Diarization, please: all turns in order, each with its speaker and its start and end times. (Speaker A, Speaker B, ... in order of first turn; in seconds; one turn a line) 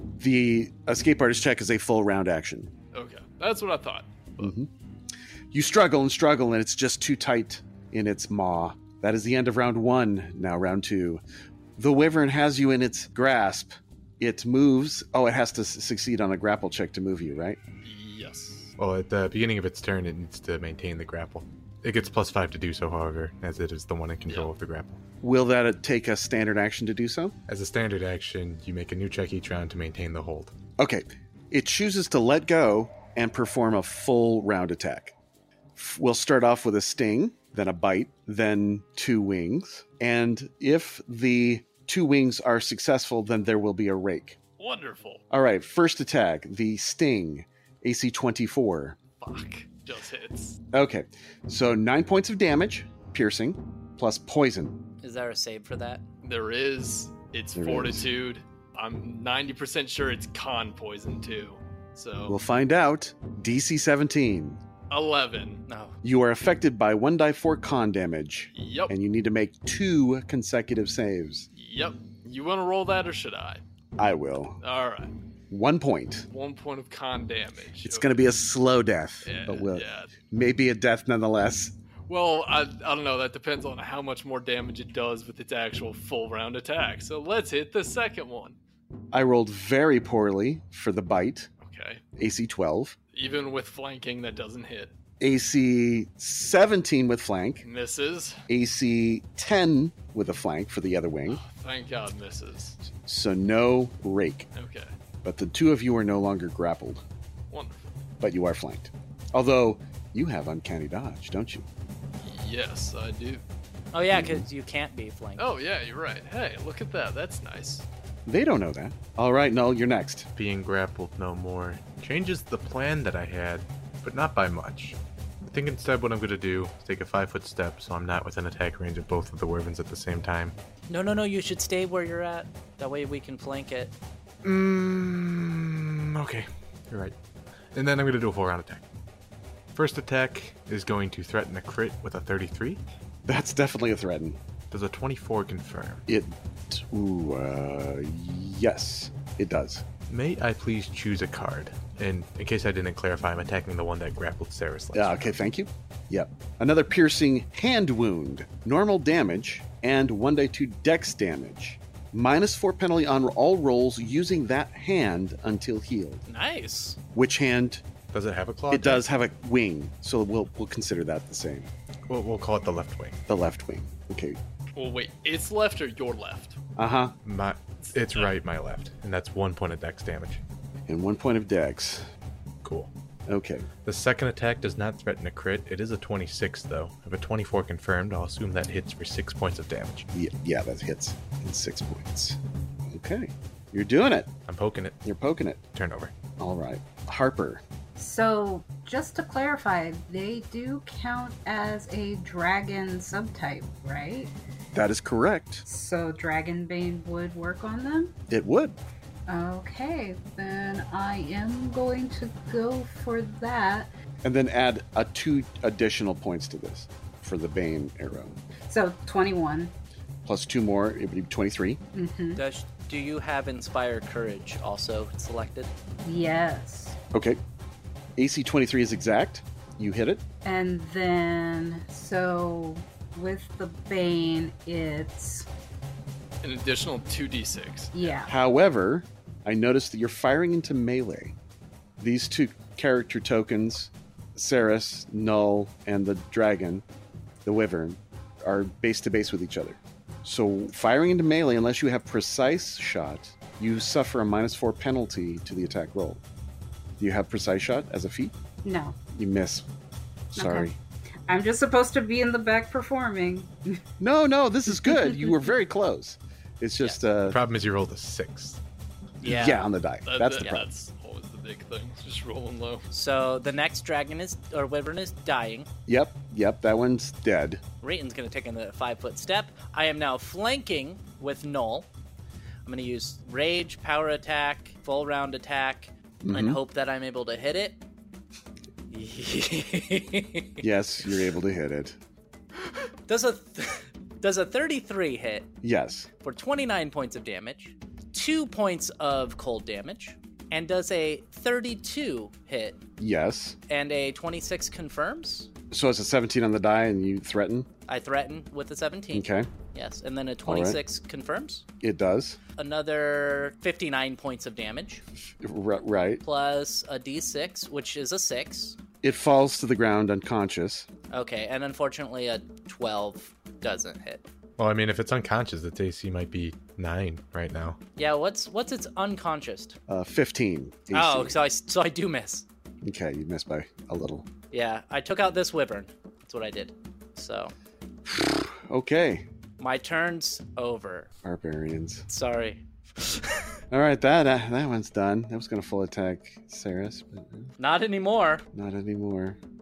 Speaker A: 0.2-2.7
Speaker B: 2.9-4.5
Speaker A: 4.4-4.7
Speaker A: 5.5-11.2
Speaker A: 11.8-17.6
Speaker B: 17.8-18.7
Speaker C: 18.8-25.0
Speaker A: 25.2-27.4
Speaker C: 27.5-30.5
Speaker A: 30.8-35.1
Speaker A: 35.8-44.4
Speaker B: 44.6-45.2
Speaker A: 45.3-49.0
Speaker B: 49.2-50.6
Speaker A: 50.7-54.8
Speaker D: 55.0-56.0
Speaker B: 56.2-62.4
Speaker A: 57.5-58.0
Speaker A: 62.3-64.6
Speaker B: 64.9-65.6
Speaker D: 65.7-66.0
Speaker A: 66.0-71.5
Speaker B: 68.5-68.9
Speaker B: 71.5-73.6
Speaker A: 74.0-74.6
Speaker B: 74.6-75.1
Speaker A: 75.5-76.3
Speaker B: 76.3-78.2
Speaker A: 77.8-81.8
Speaker B: 79.2-80.1
Speaker B: 82.1-88.6
Speaker A: 89.1-91.5
Speaker B: 91.6-92.0
Speaker A: 92.2-93.0
Speaker B: 93.1-94.9
Speaker A: 95.2-97.6
Speaker B: 97.6-98.4
Speaker A: 98.5-101.4
Speaker B: 101.3-102.8
Speaker A: 103.0-104.5
Speaker B: 104.5-104.9
Speaker A: 105.2-107.0
Speaker B: 107.5-108.0
Speaker A: 108.2-111.7
Speaker B: 112.2-113.4
Speaker D: 113.9-115.5
Speaker A: 114.1-114.5
Speaker B: 115.4-117.9
Speaker A: 118.3-120.3
Speaker C: 120.3-130.6
Speaker D: 130.9-133.9
Speaker C: 134.4-137.2
Speaker C: 137.7-138.8
Speaker C: 139.7-142.8
Speaker A: 143.2-144.4
Speaker C: 144.7-146.0
Speaker A: 146.1-149.8
Speaker C: 150.1-155.3
Speaker A: 154.9-166.2
Speaker D: 166.3-167.0
Speaker A: 167.2-167.8
Speaker C: 168.1-169.1
Speaker A: 168.7-171.7
Speaker C: 172.1-173.2
Speaker A: 173.3-174.4
Speaker B: 174.8-176.6
Speaker A: 176.8-177.2
Speaker C: 177.2-180.4
Speaker B: 177.8-178.4
Speaker A: 180.9-182.1
Speaker C: 182.6-182.9
Speaker A: 183.3-183.7
Speaker C: 183.8-190.1
Speaker A: 190.1-194.3
Speaker C: 194.5-195.0
Speaker A: 195.1-195.6
Speaker C: 195.7-196.1
Speaker A: 196.4-197.6
Speaker E: 198.0-204.3
Speaker A: 204.7-205.6
Speaker E: 205.7-208.2
Speaker A: 208.3-208.8
Speaker E: 209.3-213.9
Speaker A: 214.2-218.4
Speaker E: 218.7-219.7
Speaker A: 220.2-221.8
Speaker E: 221.9-222.4
Speaker D: 222.4-225.7
Speaker E: 226.0-227.0
Speaker A: 227.1-227.4
Speaker A: 228.2-230.2
Speaker E: 230.4-235.5
Speaker B: 236.4-238.2
Speaker E: 237.9-238.3
Speaker A: 238.3-241.3
Speaker A: 242.0-246.8
Speaker A: 247.4-256.2
Speaker A: 257.0-258.4
Speaker E: 258.6-259.0
Speaker A: 259.1-259.7
Speaker A: 260.3-260.8
Speaker E: 260.4-260.7
Speaker E: 261.3-263.8
Speaker A: 264.0-267.4
Speaker C: 267.2-268.6
Speaker D: 269.2-269.7
Speaker A: 269.2-270.6
Speaker B: 270.1-272.9
Speaker D: 270.4-270.7
Speaker D: 272.9-275.7
Speaker A: 275.9-277.6
Speaker D: 277.8-281.9
Speaker D: 282.7-287.8
Speaker A: 286.2-286.6
Speaker D: 288.9-290.7
Speaker A: 290.6-292.0
Speaker D: 293.1-295.5
Speaker A: 295.6-296.1
Speaker D: 296.2-302.8
Speaker A: 303.0-303.6
Speaker D: 303.7-305.5
Speaker A: 305.7-307.7
Speaker D: 307.9-311.6
Speaker A: 309.1-309.5
Speaker A: 310.5-310.8
Speaker A: 311.8-312.4
Speaker D: 312.6-315.0
Speaker A: 315.4-316.2
Speaker D: 316.2-318.8
Speaker A: 319.0-320.9
Speaker D: 321.1-324.2
Speaker C: 324.6-327.8
Speaker D: 328.0-329.8
Speaker A: 329.9-331.4
Speaker D: 330.9-332.4
Speaker A: 332.8-334.3
Speaker D: 334.5-337.5
Speaker A: 338.1-339.3
Speaker D: 339.6-341.1
Speaker A: 341.2-342.1
Speaker D: 342.1-343.6
Speaker A: 343.7-347.5
Speaker D: 347.6-348.4
Speaker A: 348.5-349.4